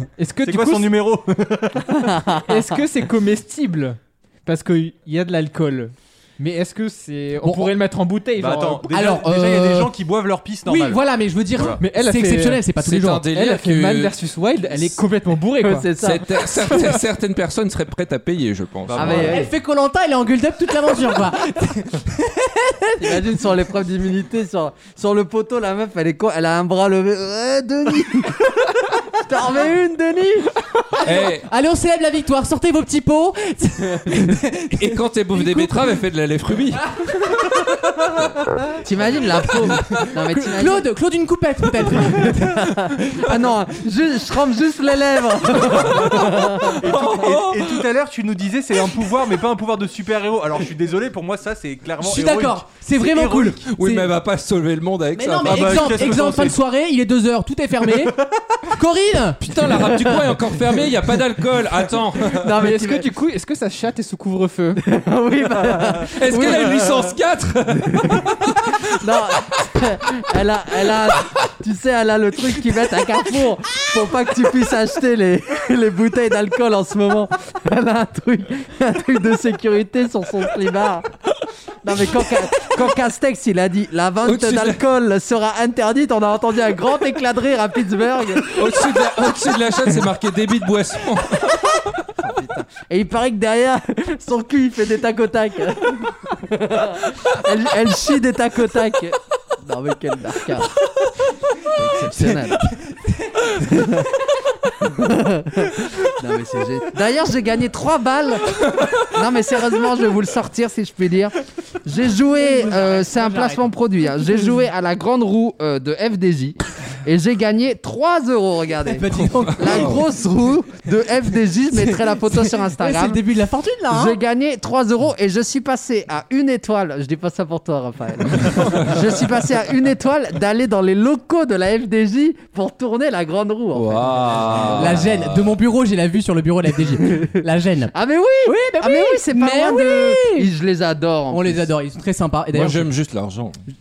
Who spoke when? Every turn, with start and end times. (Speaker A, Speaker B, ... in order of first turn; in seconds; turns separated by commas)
Speaker A: 0.2-1.0, Speaker B: 0.4-2.1, Speaker C: 2.0-2.8, Speaker A: 2.5-8.9, Speaker B: 8.4-11.0, Speaker D: 8.9-9.9, Speaker D: 10.7-13.2, Speaker B: 11.5-11.8, Speaker A: 11.8-12.7, Speaker E: 12.8-14.1, Speaker A: 13.3-15.9, Speaker C: 15.6-16.8, Speaker E: 16.0-19.4, Speaker B: 18.9-19.4, Speaker C: 18.9-19.5, Speaker D: 19.0-23.2, Speaker C: 23.0-30.6, Speaker D: 31.0-35.8, Speaker E: 31.0-31.5, Speaker E: 34.8-37.5, Speaker C: 38.8-40.9, Speaker D: 40.0-42.5, Speaker C: 41.8-46.8, Speaker E: 46.0-47.8, Speaker B: 46.8-53.6, Speaker D: 52.0-54.1, Speaker E: 53.7-56.2, Speaker D: 55.1-58.2, Speaker B: 55.4-56.6, Speaker B: 58.0-58.4, Speaker D: 58.7-59.4, Speaker E: 59.4-62.5, Speaker C: 59.7-60.8, Speaker C: 62.2-63.1, Speaker A: 62.5-64.8, Speaker C: 64.8-67.1, Speaker E: 66.2-68.9, Speaker C: 68.0-81.1, Speaker C: 81.8-88.6, Speaker E: 84.2-84.8, Speaker E: 88.5-91.9, Speaker C: 92.2-100.7, Speaker C: 101.7-102.7, Speaker C: 103.6-104.1, Speaker C: 104.8-123.2, Speaker D: 112.4-113.7, Speaker D: 114.2-114.5, Speaker D: 118.9-120.0, Speaker E: 119.5-120.0, Speaker D: 121.8-124.2, Speaker C: 123.9-135.1, Speaker E: 128.4-129.1, Speaker E: 133.7-135.6, Speaker D: 134.8-137.9, Speaker C: 137.0-137.3, Speaker C: 137.9-141.7, Speaker D: 138.4-140.5, Speaker D: 141.3-142.9, Speaker E: 142.5-143.6